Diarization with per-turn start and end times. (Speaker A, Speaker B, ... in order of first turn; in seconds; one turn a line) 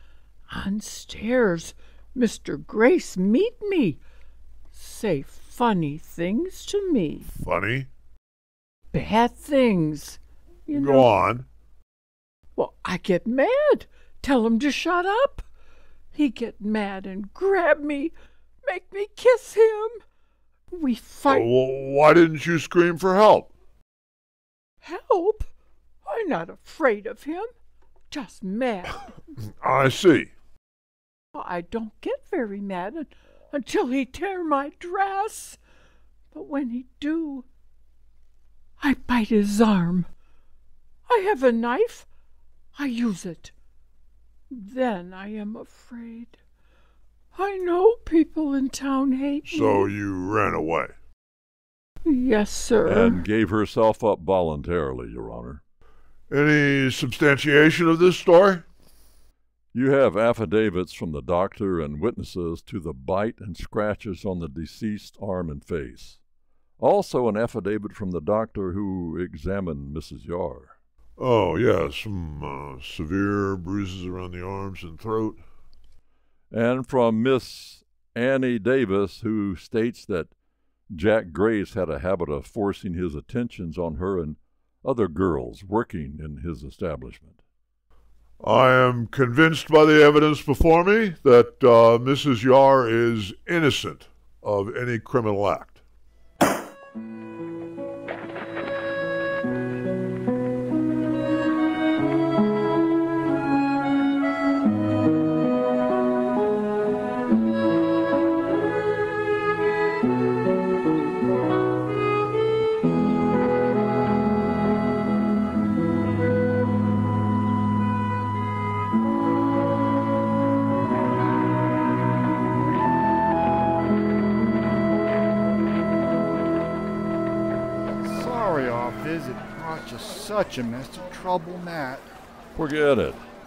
Speaker A: 0.5-4.0
Speaker A: 4.7-7.3
Speaker B: 7.3-7.9
Speaker A: 8.9-11.1
Speaker B: 10.7-11.5
Speaker A: 12.6-15.4
Speaker A: 16.1-18.1
Speaker A: 18.6-20.0
Speaker A: 20.7-21.5
Speaker B: 21.3-23.5
Speaker A: 24.8-25.5
Speaker A: 26.1-27.5
Speaker A: 28.1-29.3
Speaker B: 29.6-30.3
Speaker A: 31.4-35.6
Speaker A: 36.3-37.5
Speaker A: 38.8-40.1
Speaker A: 41.1-42.1
Speaker A: 42.8-43.5
Speaker A: 44.5-46.4
Speaker A: 47.3-49.9
Speaker B: 49.5-50.9
Speaker A: 52.1-53.2
Speaker C: 52.9-55.6
Speaker B: 56.3-58.6
Speaker C: 59.7-66.2
Speaker C: 66.8-70.8
Speaker B: 71.2-75.4
Speaker C: 76.5-80.3
Speaker C: 80.9-87.4
Speaker B: 88.4-95.8
Speaker D: 128.0-132.1
Speaker C: 132.6-133.2